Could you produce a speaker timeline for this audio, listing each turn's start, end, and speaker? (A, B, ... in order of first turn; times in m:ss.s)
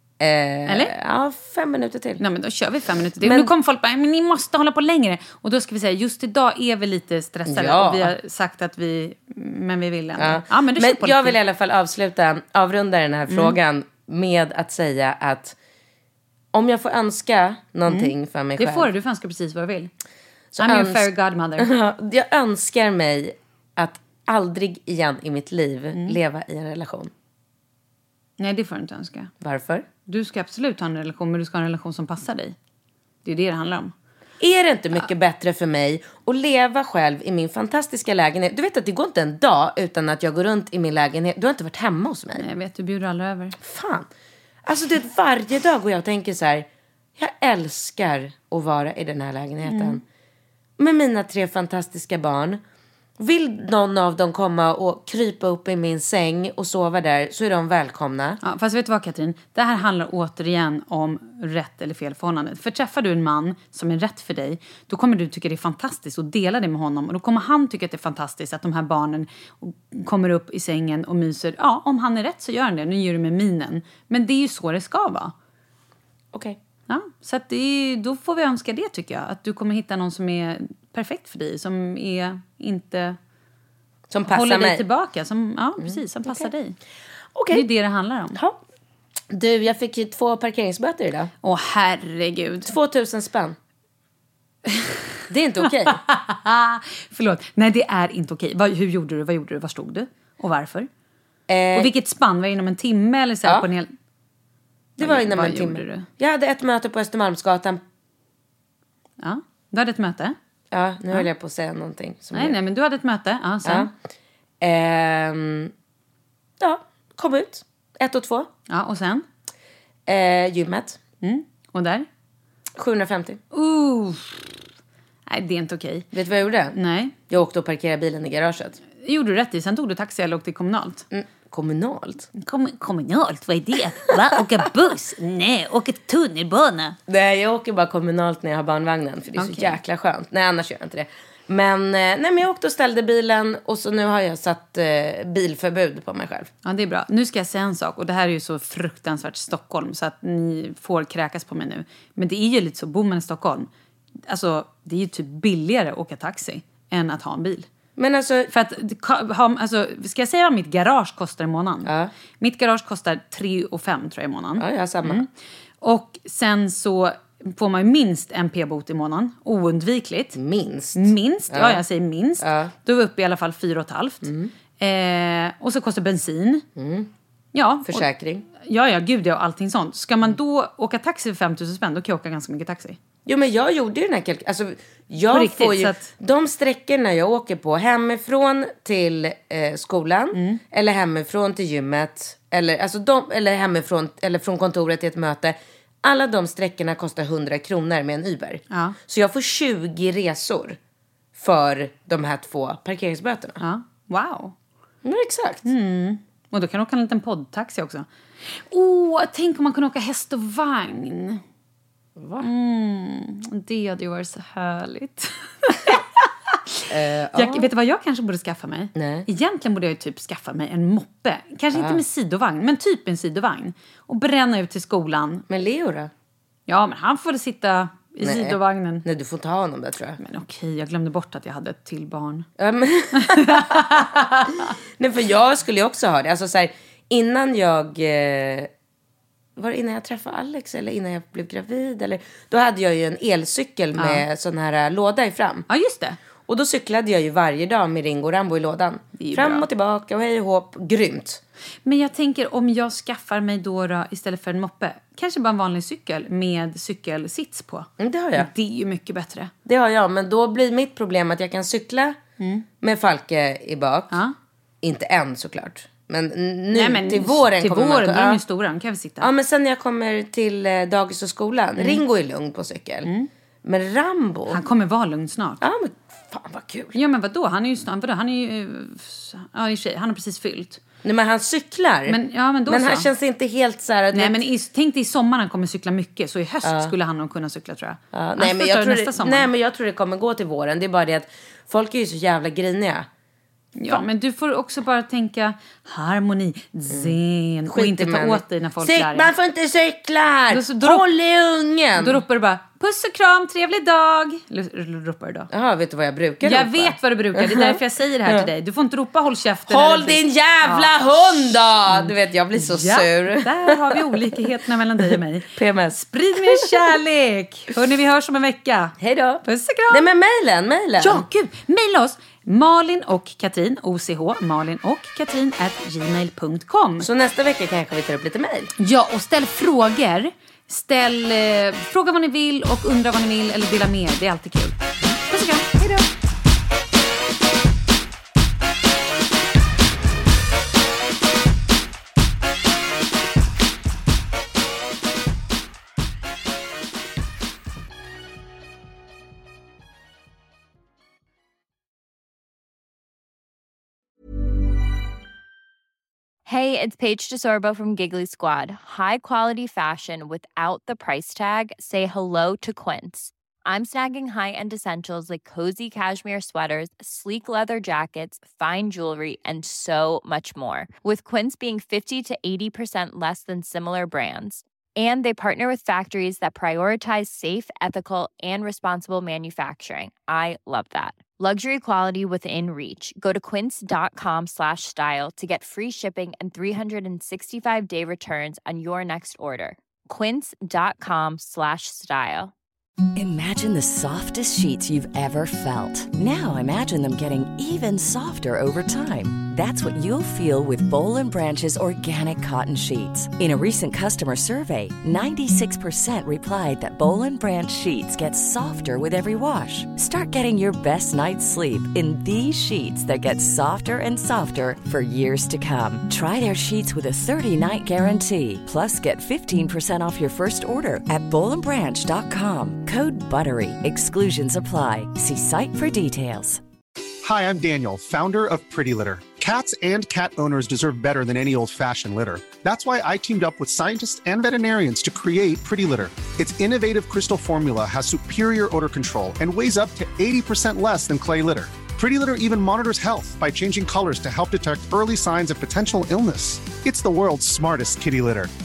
0:00.2-0:02.2 A
0:00.7-0:00.9 B
0:02.2-0:11.4 B
0:03.2-0:03.5 A
0:07.5-0:08.1 A
0:10.2-0:15.6 A
0:13.3-0:13.6 B
0:16.5-0:18.9 A
0:17.9-0:19.9 B
0:20.5-0:27.1 A
0:20.6-0:21.7 B
0:25.9-0:26.2 B
0:28.4-0:29.3 B
0:29.4-0:29.8 A
0:30.1-0:32.6 B
0:33.2-0:33.9 B
0:34.4-0:42.5 A
0:42.4-0:43.6 B
0:43.6-0:44.1 A
0:44.7-0:50.0 A
0:49.7-0:50.0 B
0:50.8-0:52.6 A
0:53.2-0:58.4 A
0:58.4-1:15.3 B
1:16.3-1:16.6 A
1:16.9-1:23.2 B
1:24.1-1:24.8 A
1:24.3-1:26.8 B
1:25.8-1:26.5 A
1:27.4-1:27.7 A
1:27.5-1:28.4 B
1:29.3-1:31.3 A
1:31.4-1:32.8 B
1:32.6-1:33.6 A
1:35.3-1:36.0 A
1:35.8-1:40.9 B
1:41.5-1:41.9 A
1:41.7-1:43.9 B
1:45.0-1:46.1 B
1:45.0-1:47.8 A
1:49.2-1:50.4 B
1:50.7-1:52.6 A
1:52.3-1:53.9 B
1:53.6-1:53.9 A
1:54.6-1:55.7 A
1:56.6-1:58.5 A
1:58.7-1:59.2 B
2:00.1-2:01.0 A
2:01.2-2:02.1 B
2:02.8-2:03.4 A
2:03.5-2:04.6 B
2:05.3-2:06.1 B
2:06.1-2:06.8 A
2:06.7-2:07.2 B
2:07.3-2:08.8 A
2:09.0-2:11.1 B
2:11.1-2:12.3 A
2:12.4-2:17.0 B
2:17.1-2:26.5 A
2:19.4-2:19.8 B
2:26.6-2:33.7 B
2:34.3-2:37.7 B
2:38.0-2:38.5 A
2:38.5-2:45.3 B
2:41.9-2:42.1 A
2:44.6-2:45.2 A
2:45.8-2:50.4 B
2:50.4-2:51.8 A
2:51.0-2:56.6 B
2:52.4-2:52.7 A
2:54.2-2:54.5 A
2:56.8-2:57.1 A
2:57.5-3:03.0 B
2:57.9-2:58.5 A
3:03.3-3:20.8 A
3:05.3-3:06.1 B
3:10.3-3:10.6 B
3:18.7-3:19.0 B
3:21.4-3:23.6 A
3:23.6-3:24.6 B
3:25.0-3:25.7 A
3:25.6-3:31.4 B
3:32.2-3:32.5 A
3:32.4-3:45.4 B
3:36.9-3:37.7 A
3:39.0-3:39.3 A
3:41.7-3:42.0 A
3:45.5-3:46.1 A
3:46.7-3:49.0 B
3:48.2-3:50.2 A
3:50.2-3:52.5 B
3:52.6-3:54.2 A
3:53.2-3:54.7 B
3:55.0-3:58.7 A
3:59.6-4:05.7 A
4:04.0-4:04.2 B
4:05.7-4:06.2 B
4:06.5-4:11.4 A
4:09.2-4:09.7 B
4:11.8-4:19.5 B
4:18.0-4:18.5 A
4:19.7-4:22.2 A
4:22.4-4:22.6 B
4:22.8-4:24.1 A
4:24.8-4:28.4 A
4:26.7-4:29.3 B
4:29.2-4:33.1 A
4:31.8-4:32.0 B
4:33.6-4:34.6 A
4:34.5-4:35.6 B
4:35.6-4:37.0 A
4:36.9-4:40.8 B
4:41.0-4:44.4 A
4:42.1-4:43.1 B
4:44.1-4:49.5 B
4:46.6-4:46.9 A
4:48.1-4:53.1 A
4:53.8-4:59.3 B
4:56.9-5:02.2 A
5:00.5-5:01.0 B
5:02.0-5:05.5 B
5:05.5-5:08.5 A
5:06.4-5:10.9 B
5:09.7-5:14.3 A
5:11.9-5:20.1 B
5:15.5-5:16.8 A
5:19.0-5:21.3 A
5:21.0-5:27.1 B
5:27.0-5:28.7 A
5:28.8-5:36.0 B
5:56.5-6:32.5 C
6:33.2-7:06.6 D
7:07.2-7:28.5 E